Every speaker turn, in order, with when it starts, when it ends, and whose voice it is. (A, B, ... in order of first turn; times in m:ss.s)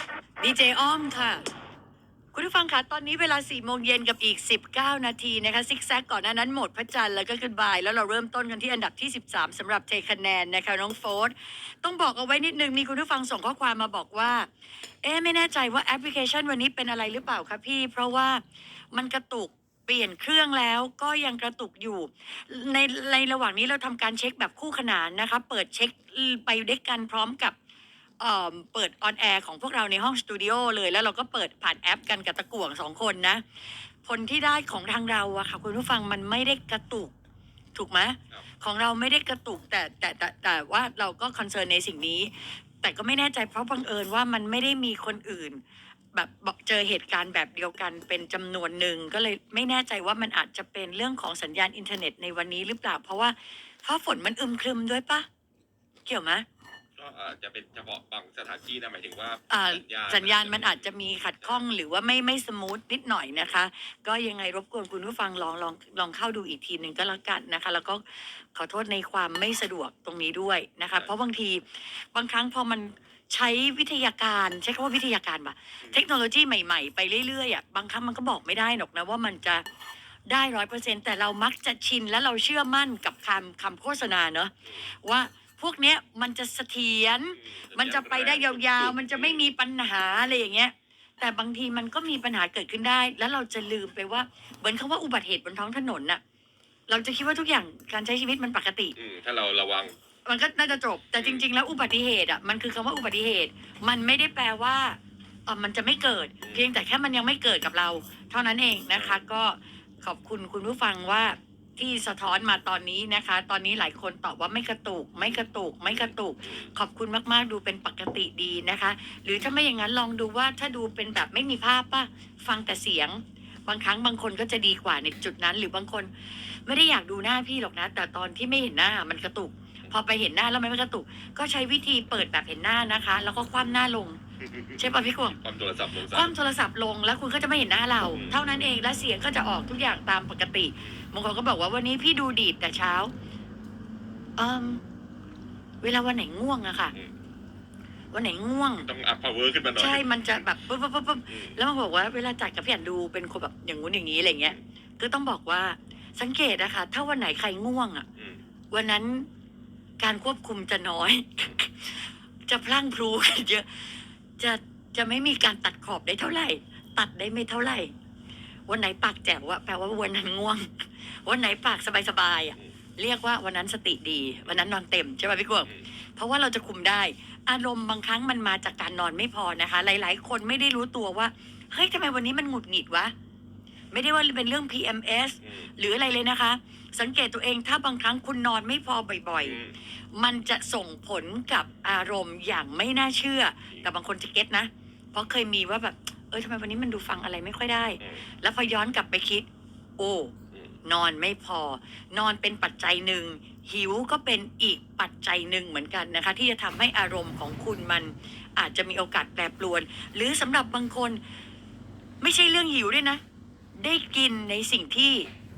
0:00.4-0:01.4 A
0:02.3-0:14.5 A
0:15.0-0:27.6 A
0:28.2-0:33.4 A
0:34.0-0:37.1 A
0:37.7-0:45.6 A
0:46.1-0:55.2 A
0:56.0-0:56.4 A
0:57.0-1:01.6 B
0:59.5-1:19.6 A
1:20.3-1:36.2 A
1:27.4-1:29.4 B
1:36.9-1:38.9 A
1:39.0-1:39.9 B
1:40.2-2:14.2 A
1:41.2-1:41.4 B
1:48.9-1:49.2 B
1:55.9-1:56.7 B
2:14.4-2:16.3 B
2:14.8-2:15.4 A
2:16.1-2:23.1 A
2:18.1-2:18.4 B
2:24.4-2:24.8 A
2:25.8-2:26.9 A
2:28.1-2:28.9 A
2:28.8-2:30.1 B
2:29.8-2:38.0 A
2:31.3-2:31.6 B
2:38.7-2:39.3 A
2:40.0-2:47.9 A
2:48.7-3:03.1 A
3:03.9-3:09.6 A
3:09.4-3:09.8 B
3:10.1-3:19.5 A
3:20.0-3:20.3 A
3:20.8-3:31.2 A
3:32.2-3:33.2 A
3:33.8-3:35.3 A